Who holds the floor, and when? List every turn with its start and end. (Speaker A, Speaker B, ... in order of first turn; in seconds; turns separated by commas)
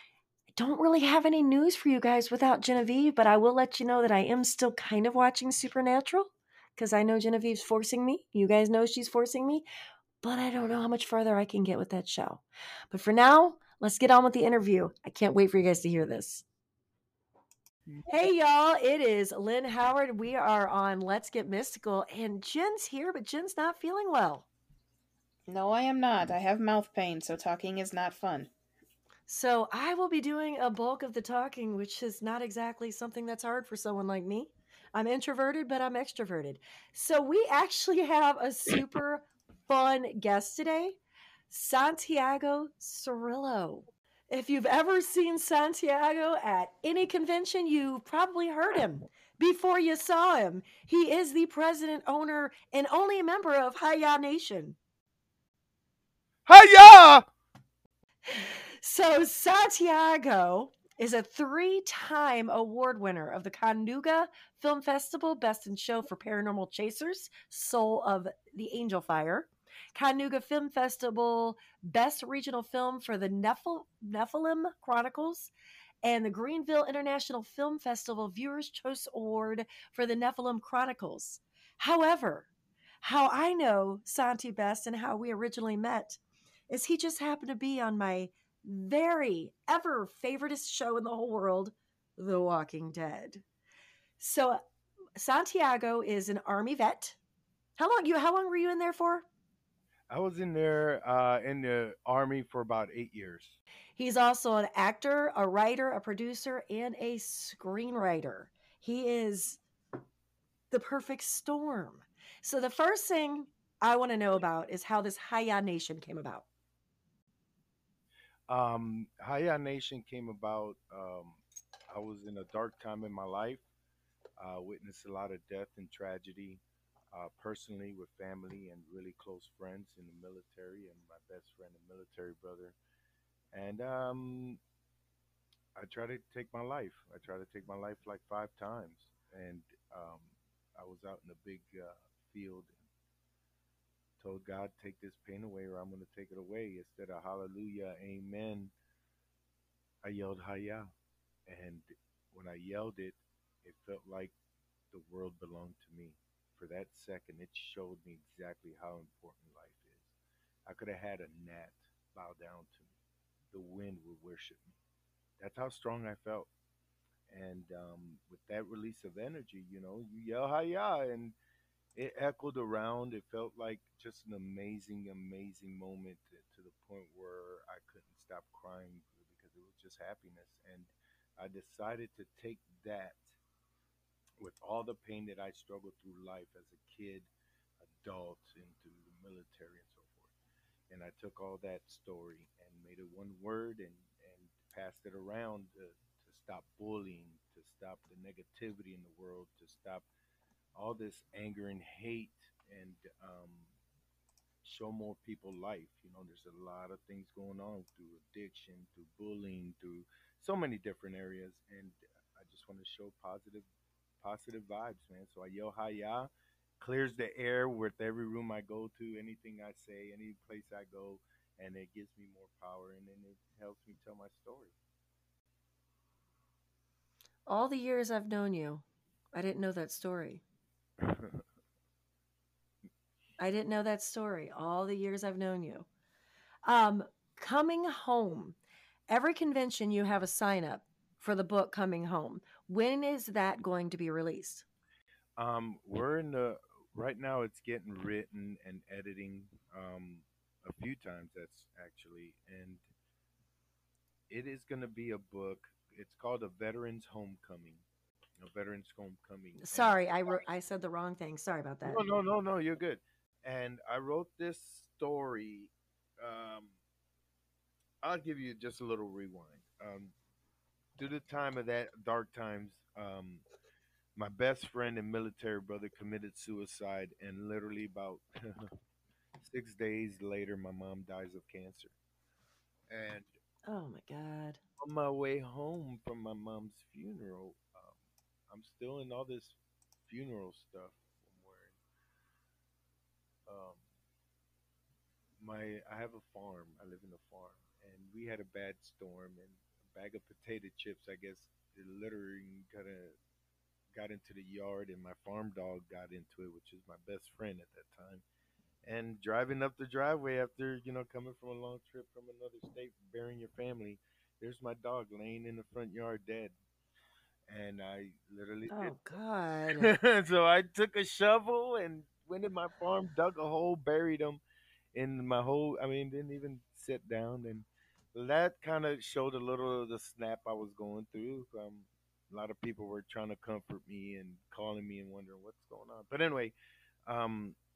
Speaker A: 0.6-9.6, Speaker A: 10.2-16.4, Speaker A: 18.1-24.4, Speaker B: 25.5-28.5, Speaker A: 29.3-41.0, Speaker A: 41.5-54.8, Speaker C: 56.5-57.2, Speaker A: 58.3-75.5, Speaker A: 76.0-82.5, Speaker A: 83.0-86.2, Speaker A: 86.7-93.4, Speaker A: 94.2-94.6, Speaker A: 95.2-97.2, Speaker A: 97.8-99.2, Speaker C: 100.1-103.6, Speaker A: 104.0-109.6, Speaker A: 110.7-116.4, Speaker C: 118.5-123.6, Speaker C: 124.4-126.6, Speaker C: 127.1-132.8, Speaker C: 133.5-134.6, Speaker C: 135.8-142.8, Speaker C: 144.2-148.7, Speaker C: 150.0-150.9, Speaker C: 151.5-154.3, Speaker C: 154.9-160.1, Speaker C: 160.7-162.9, Speaker C: 163.5-164.7, Speaker C: 165.4-166.5, Speaker C: 167.3-171.3, Speaker C: 171.9-183.4, Speaker C: 184.4-187.3, Speaker C: 187.8-190.3, Speaker C: 190.9-200.1, Speaker C: 200.7-203.7, Speaker C: 204.6-213.7, Speaker C: 214.2-224.7, Speaker A: 227.5-230.4, Speaker C: 231.0-231.4, Speaker A: 233.4-235.9, Speaker A: 236.7-238.6, Speaker A: 239.1-244.6, Speaker C: 245.4-252.8, Speaker C: 254.3-257.8, Speaker C: 258.4-260.0, Speaker A: 259.6-262.0, Speaker C: 261.8-266.7, Speaker C: 268.0-270.1, Speaker C: 271.0-273.4, Speaker C: 274.1-278.7, Speaker C: 279.4-281.9, Speaker C: 282.9-283.3, Speaker A: 283.7-284.6, Speaker C: 284.8-288.0, Speaker C: 288.5-291.7, Speaker C: 293.5-293.8, Speaker C: 295.4-303.1, Speaker C: 303.9-308.2, Speaker C: 308.8-316.5, Speaker C: 317.5-318.9, Speaker A: 318.7-319.9, Speaker C: 319.8-324.4, Speaker C: 324.9-336.5, Speaker C: 337.1-337.6